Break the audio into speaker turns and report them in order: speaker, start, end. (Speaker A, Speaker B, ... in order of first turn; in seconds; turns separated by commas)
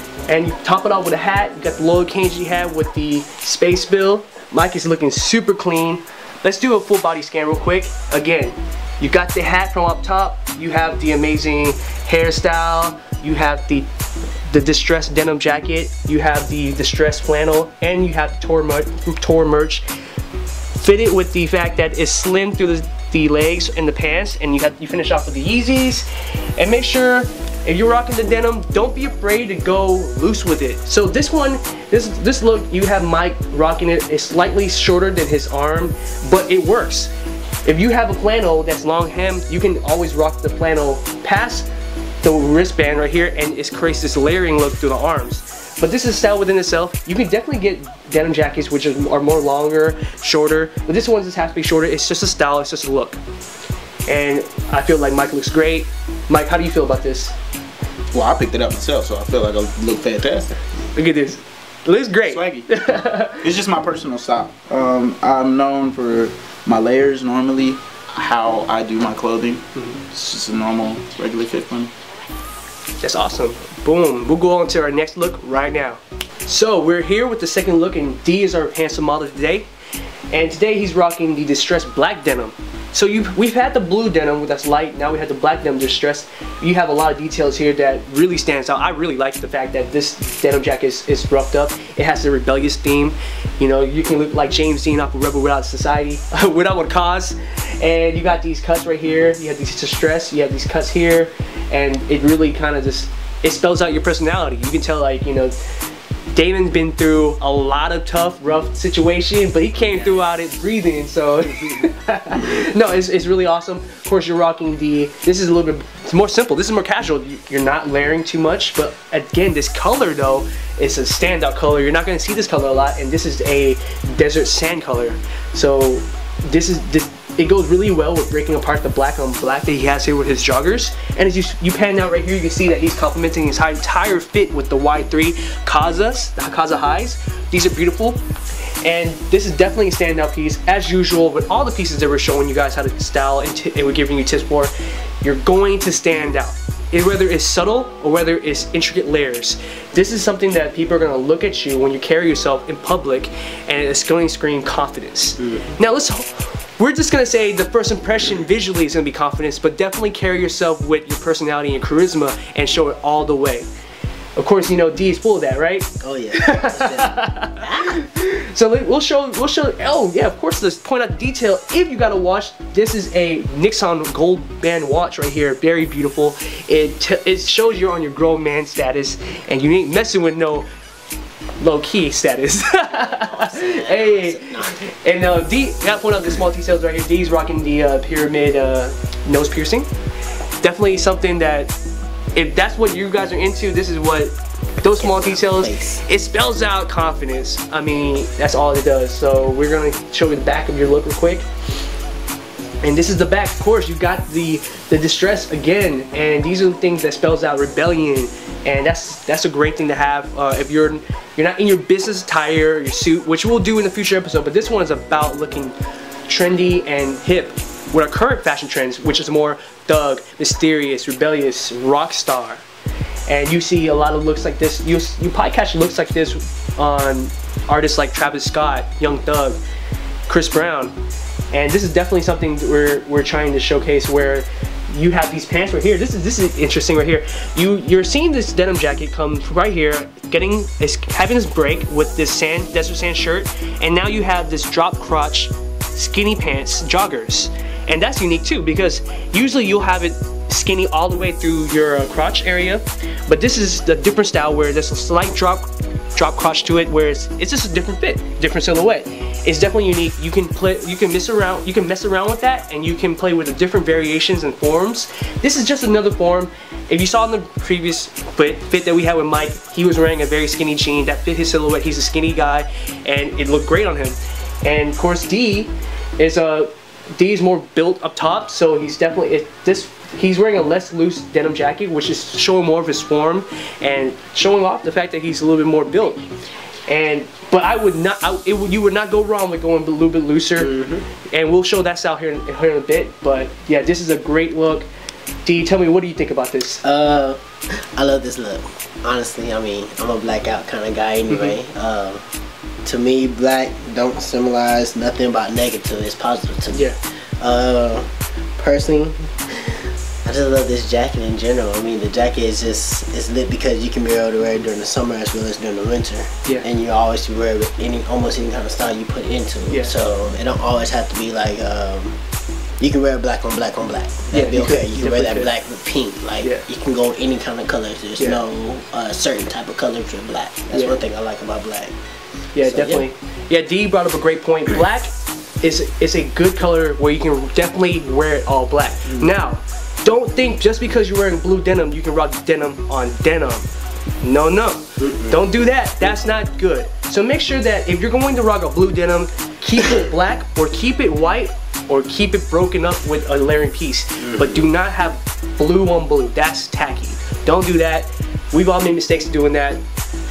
Speaker A: 0.3-13.9, Speaker A: 14.5-19.8, Speaker A: 20.7-37.1, Speaker A: 37.6-41.7, Speaker A: 42.2-53.2, Speaker A: 54.1-57.3, Speaker B: 58.1-60.6, Speaker A: 60.9-63.5, Speaker B: 62.2-62.7, Speaker B: 63.4-71.9, Speaker A: 73.0-79.7, Speaker A: 80.3-105.5, Speaker A: 106.3-138.2, Speaker A: 138.8-163.7, Speaker A: 164.4-180.7, Speaker C: 166.0-167.9, Speaker A: 181.6-189.9, Speaker C: 182.9-184.9, Speaker A: 190.6-191.7, Speaker A: 192.3-201.4, Speaker C: 194.9-196.0, Speaker A: 202.8-215.7, Speaker A: 216.3-222.6, Speaker A: 223.3-229.6, Speaker A: 230.3-231.0, Speaker A: 231.5-286.3, Speaker A: 286.9-290.7, Speaker C: 290.6-291.1, Speaker A: 291.2-294.9, Speaker A: 295.4-296.8, Speaker C: 296.8-302.2, Speaker A: 301.3-301.6, Speaker C: 302.8-322.1, Speaker A: 306.7-306.9, Speaker A: 319.7-319.9, Speaker C: 322.8-331.9, Speaker A: 324.3-325.5, Speaker A: 326.4-326.6, Speaker A: 330.7-331.0, Speaker A: 332.5-343.7, Speaker C: 332.6-333.1, Speaker A: 344.2-359.8, Speaker C: 345.0-345.4, Speaker C: 354.2-354.6